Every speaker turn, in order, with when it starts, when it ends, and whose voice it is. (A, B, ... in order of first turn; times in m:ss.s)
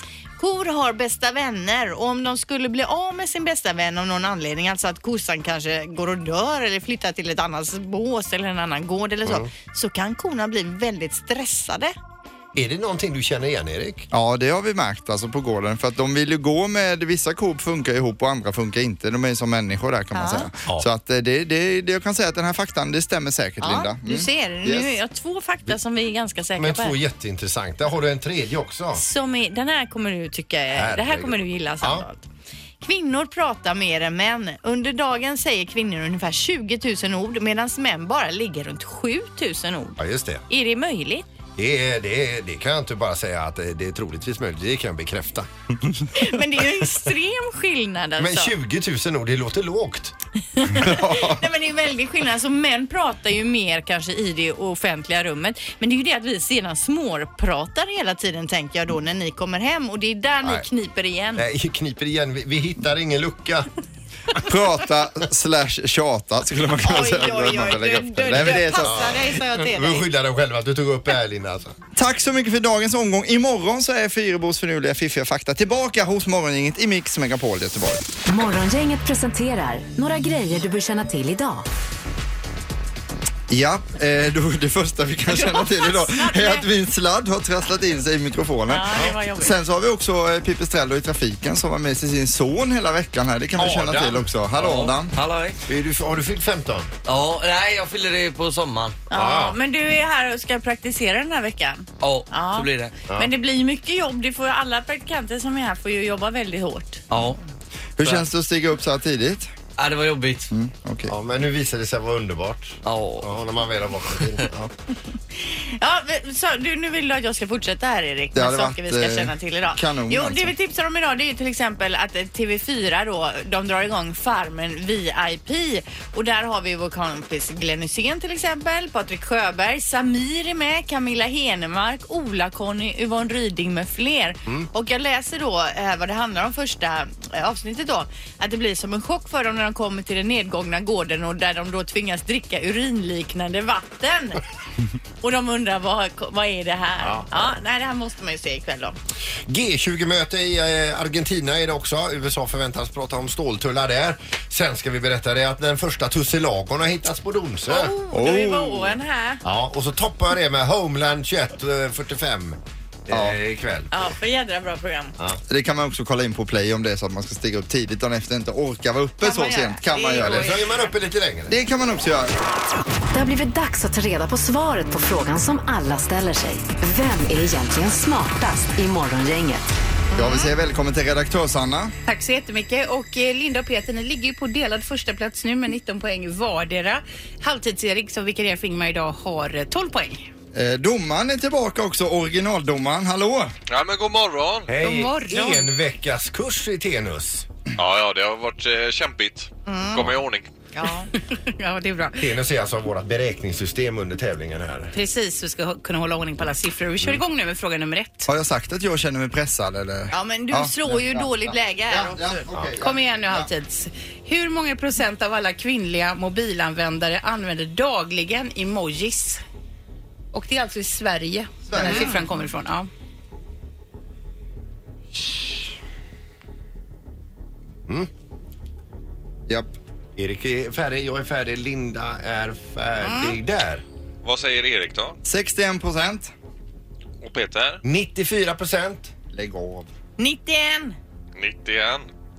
0:00.4-0:12.0 A
0:09.2-0:09.5 B
0:12.6-0:14.1 B
0:14.1-0:24.9 C
0:20.1-0:20.5 A
0:23.6-0:27.0 A
0:26.6-0:29.0 B
0:29.0-0:32.2 A
0:30.7-0:32.1 B
0:32.8-0:41.2 A
0:40.0-0:40.4 B
0:41.6-0:45.5 B
0:46.1-0:48.5 A
0:48.2-0:50.2 B
0:50.6-1:01.4 A
0:50.7-0:51.5 C
1:01.4-1:03.7 B
1:04.4-1:09.0 C
1:06.8-1:10.1 A
1:08.8-1:11.8 B
1:12.0-1:18.1 C
1:18.2-1:21.7 D
1:23.5-1:35.1 C
1:25.3-1:26.7 A
1:28.7-1:29.6 A
1:33.6-1:34.3 B
1:34.6-1:35.6 E
1:35.7-1:36.9 B
1:37.1-1:39.0 E
1:39.1-1:47.0 A
1:39.1-1:39.6 B
1:42.0-1:42.9 E
1:47.1-1:47.4 E
1:48.0-1:49.5 C
1:49.8-1:50.5 E
1:50.5-1:51.1 C
1:51.1-1:54.7 B
1:52.8-1:53.3 E
1:54.2-1:54.4 E
1:55.3-2:24.4 A
1:58.4-2:00.5 C
2:25.2-2:29.0 A
2:27.0-2:27.5 B
2:29.5-2:38.0 B
2:37.7-2:39.4 A
2:38.1-2:39.0 C
2:39.4-2:44.1 B
2:43.1-2:43.4 C
2:43.9-2:45.2 A
2:45.5-2:50.6 C
2:49.2-2:50.9 A
2:50.2-2:51.6 B
2:51.5-2:52.3 C
2:53.1-2:59.7 D
3:00.1-3:00.5 A
3:00.2-3:01.9 C
3:02.1-3:10.3 F
3:10.5-3:13.5 C
3:13.7-3:14.7 G
3:14.7-3:17.5 B
3:14.8-3:15.7 F
3:17.8-3:20.5 G
3:19.7-3:20.1 A
3:20.7-3:21.1 A
3:21.1-3:22.3 F
3:22.2-3:25.0 B
3:24.9-3:28.3 F
3:28.3-3:33.5 C
3:30.1-3:32.5 A
3:32.5-3:32.8 B
3:32.8-3:39.4 F
3:40.3-3:42.9 F
3:41.7-3:42.2 C
3:41.8-3:42.2 A
3:49.5-3:49.7 C
3:50.2-3:53.8 B
3:53.0-3:53.3 A
3:54.2-3:55.2 G
3:55.2-3:56.3 C
3:57.2-3:57.8 G
3:57.8-3:59.1 B
3:59.3-3:59.9 C
4:00.2-4:01.0 A
4:01.4-4:02.1 G